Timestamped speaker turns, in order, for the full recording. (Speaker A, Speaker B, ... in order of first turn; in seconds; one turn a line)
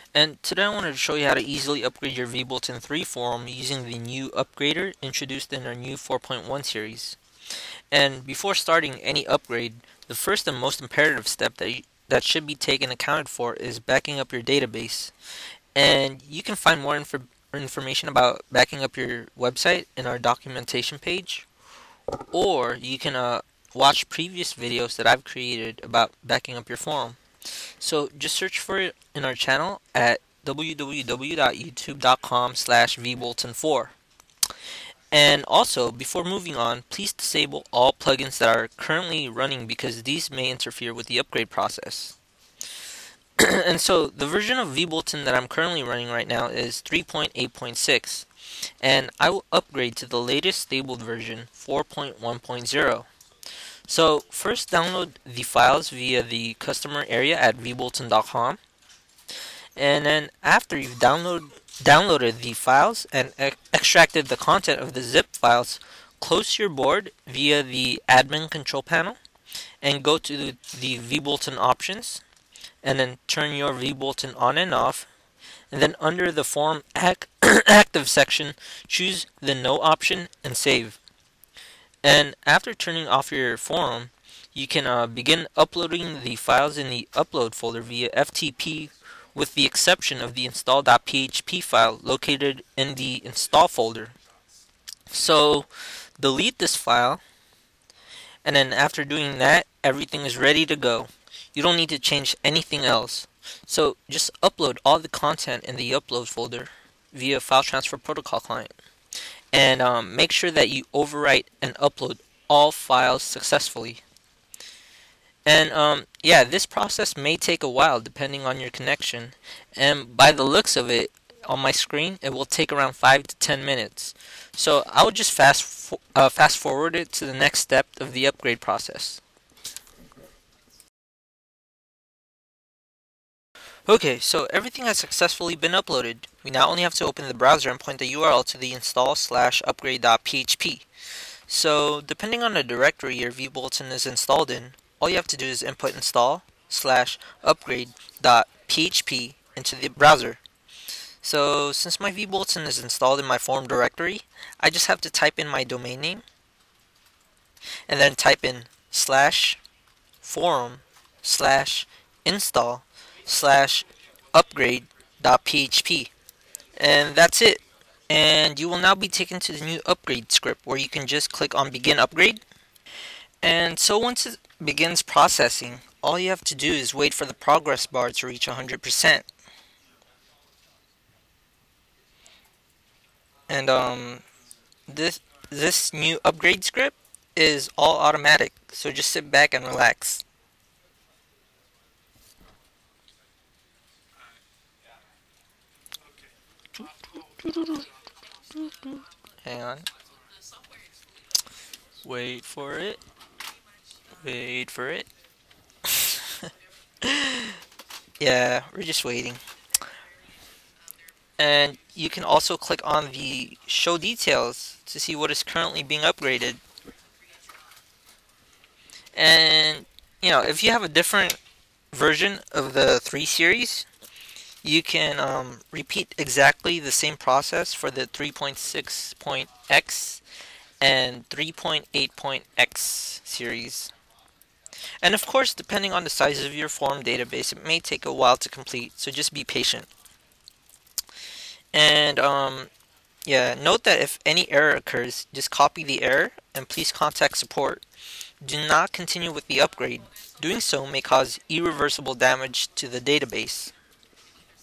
Speaker A: 0.1-7.2
Speaker A: 7.9-15.1
Speaker A: 15.7-21.5
Speaker A: 22.3-33.9
Speaker A: 35.1-42.1
Speaker A: 43.4-48.3
Speaker A: 48.8-53.1
Speaker A: 53.9-58.6
Speaker A: 59.8-69.2
Speaker A: 69.8-72.2
Speaker A: 72.8-75.1
Speaker A: 75.7-81.0
Speaker A: 82.0-94.1
Speaker A: 95.1-97.2
Speaker A: 98.4-108.7
Speaker A: 109.5-114.0
Speaker A: 115.5-129.2
Speaker A: 133.8-140.8
Speaker A: 141.5-150.4
Speaker A: 151.2-156.2
Speaker A: 157.9-159.6
Speaker A: 160.2-166.1
Speaker A: 166.8-172.4
Speaker A: 173.4-179.3
Speaker A: 183.5-184.2
Speaker A: 184.9-190.2
Speaker A: 197.3-197.8
Speaker A: 198.5-199.9
Speaker A: 202.0-203.0
Speaker A: 204.2-205.1
Speaker A: 205.9-206.5
Speaker A: 207.0-207.6
Speaker A: 208.2-209.4
Speaker A: 211.4-216.6
Speaker A: 219.1-221.4
Speaker A: 221.9-223.9
Speaker A: 224.6-230.2
Speaker A: 230.8-233.9
Speaker A: 235.0-239.9
Speaker A: 241.7-242.7
Speaker A: 243.2-247.8
Speaker A: 248.4-253.7